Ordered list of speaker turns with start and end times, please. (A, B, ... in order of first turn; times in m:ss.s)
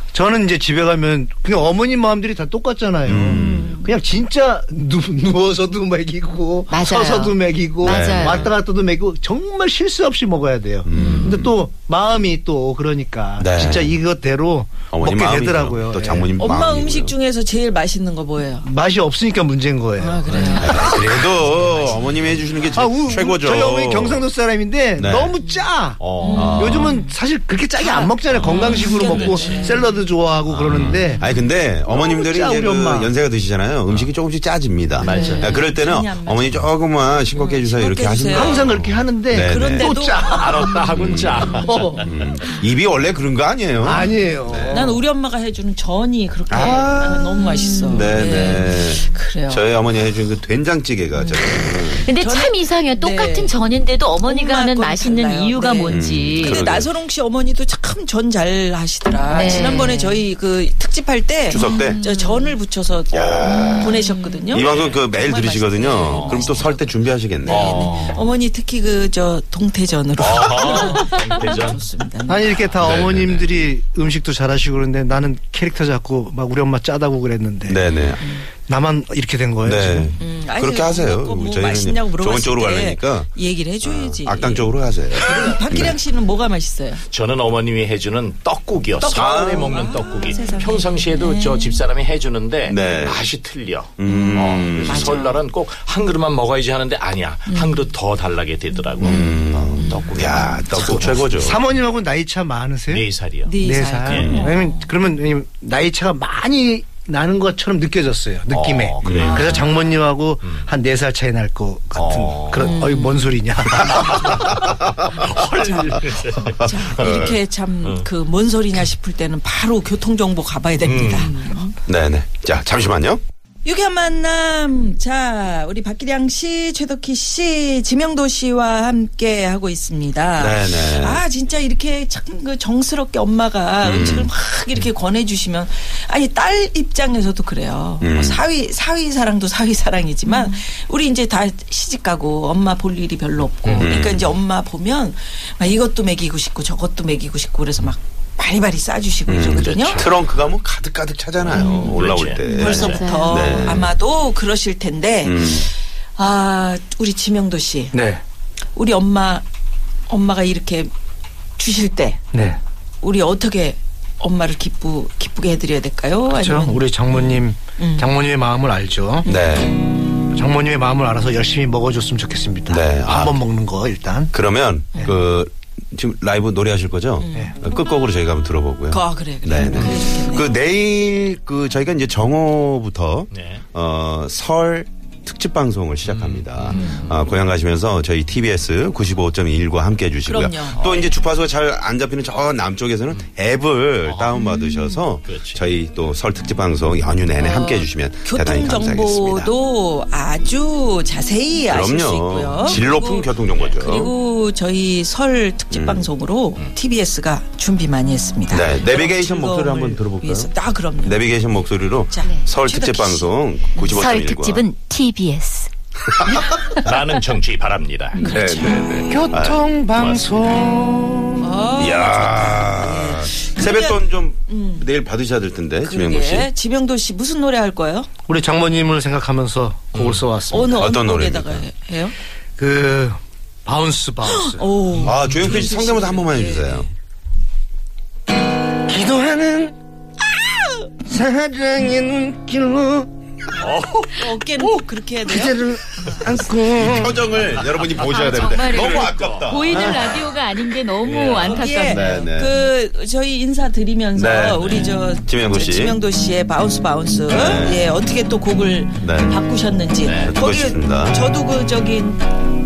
0:00.1-0:16.4 A
0:03.1-0:03.8 B
0:03.3-0:03.9 C
0:06.7-0:08.5 D
0:07.8-0:08.5 B
0:10.8-0:11.5 B
0:11.0-0:11.4 C
0:13.4-0:14.0 B
0:14.9-0:17.1 B
0:16.4-0:18.7 C
0:18.6-0:21.0 A
0:20.0-0:21.1 C
0:20.3-0:22.6 E
0:20.6-0:24.2 B
0:22.7-0:31.2 A
0:25.0-0:25.4 B
0:26.0-0:26.9 E
0:26.2-0:27.1 C
0:26.3-0:26.9 B
0:27.8-0:30.0 C
0:28.3-0:29.8 E
0:30.5-0:40.0 B
0:31.9-0:33.1 A
0:35.0-0:35.6 E
0:35.0-0:36.6 C
0:37.3-0:38.7 C
0:38.3-0:40.8 A
0:39.4-0:42.6 C
0:40.2-0:42.1 E
0:40.9-0:44.9 B
0:43.8-0:45.0 A
0:44.7-0:49.7 C
0:46.5-0:52.1 B
0:47.4-0:48.2 D
0:51.2-0:53.6 C
0:52.0-0:56.6 D
0:54.2-1:12.5 C
0:55.9-0:56.9 B
0:59.3-1:00.2 D
1:01.5-1:02.0 B
1:01.5-1:02.6 D
1:03.1-1:04.0 B
1:03.4-1:04.5 D
1:04.5-1:08.2 B
1:04.6-1:05.0 E
1:06.0-1:06.7 E
1:07.5-1:08.3 E
1:10.2-1:11.8 E
1:12.3-1:17.8 A
1:12.6-1:13.5 E
1:17.7-1:18.2 B
1:18.2-1:18.4 C
1:18.6-1:20.2 A
1:19.6-1:23.3 B
1:20.2-1:27.0 C
1:23.8-1:26.0 B
1:27.1-1:41.6 E
1:29.0-1:31.8 C
1:29.2-1:29.8 B
1:32.7-1:33.3 B
1:34.0-1:35.3 B
1:34.1-1:35.4 C
1:37.5-1:37.8 C
1:39.0-1:40.6 C
1:39.0-1:41.6 B
1:41.4-1:43.1 A
1:42.9-1:44.5 E
1:43.5-1:44.9 C
1:43.6-1:54.4 A
1:44.2-1:44.5 B
1:48.5-1:49.7 E
1:49.1-1:49.6 B
1:49.3-1:49.7 C
1:52.0-1:52.9 E
1:52.6-1:53.4 C
1:53.8-1:57.3 E
1:53.8-1:57.3 B
1:56.6-2:01.7 C
2:00.8-2:01.4 E
2:01.9-2:03.2 B
2:03.6-2:30.1 C
2:10.4-2:11.2 B
2:13.8-2:14.3 B
2:18.0-2:18.4 B
2:23.8-2:24.3 B
2:29.3-2:34.0 B
2:29.6-2:30.2 E
2:31.4-2:32.4 E
2:31.5-2:38.0 C
2:31.6-2:33.8 D
2:35.2-2:35.7 B
2:37.9-2:38.2 A
2:38.8-2:39.4 C
2:40.1-2:40.9 C
2:41.6-2:42.2 C
2:42.3-2:42.6 A
2:43.0-2:48.1 C
2:46.4-2:49.3 A
2:49.2-2:49.8 B
2:50.3-2:54.3 A
2:52.7-2:53.4 B
2:54.3-3:19.5 B
2:54.9-2:55.2 C
2:57.2-2:57.6 C
2:58.9-3:00.6 C
3:03.3-3:03.6 E
3:06.0-3:07.3 E
3:06.7-3:07.1 C
3:10.2-3:11.1 C
3:10.7-3:11.1 E
3:14.0-3:14.4 E
3:15.2-3:15.7 E
3:17.4-3:31.3 C
3:21.7-3:24.1 B
3:23.5-3:23.8 E
3:25.7-3:26.1 B
3:28.5-3:30.5 B
3:31.0-3:34.6 B
3:32.1-3:33.3 C
3:32.2-3:32.7 D
3:33.8-3:35.7 D
3:36.1-3:36.6 B
3:36.8-3:38.2 E
3:38.2-3:39.1 C
3:38.2-3:39.7 B
3:39.1-3:41.5 A
3:40.0-3:40.6 E
3:41.4-3:44.9 C
3:41.8-3:46.5 B
3:45.8-3:48.1 C
3:48.3-3:50.9 A
3:50.0-3:50.2 E
3:50.5-3:52.2 C
3:50.6-3:51.7 B
3:52.6-3:54.7 A
3:54.2-3:56.9 C
3:55.0-3:56.9 B
3:58.9-3:59.8 A
4:00.5-4:00.9 C
4:01.0-4:03.1 A
4:03.6-4:06.4 C
4:03.6-4:04.8 E
4:05.2-4:07.2 A
4:06.7-4:10.2 B
4:07.3-4:08.0 E
4:08.0-4:12.1 D
4:08.5-4:10.0 E
4:11.0-4:11.5 E
4:11.1-4:12.7 B
4:11.4-4:22.3 C
4:14.2-4:16.0 B
4:17.3-4:17.9 B
4:19.0-4:19.4 B
4:20.0-4:20.3 E
4:20.3-4:21.2 B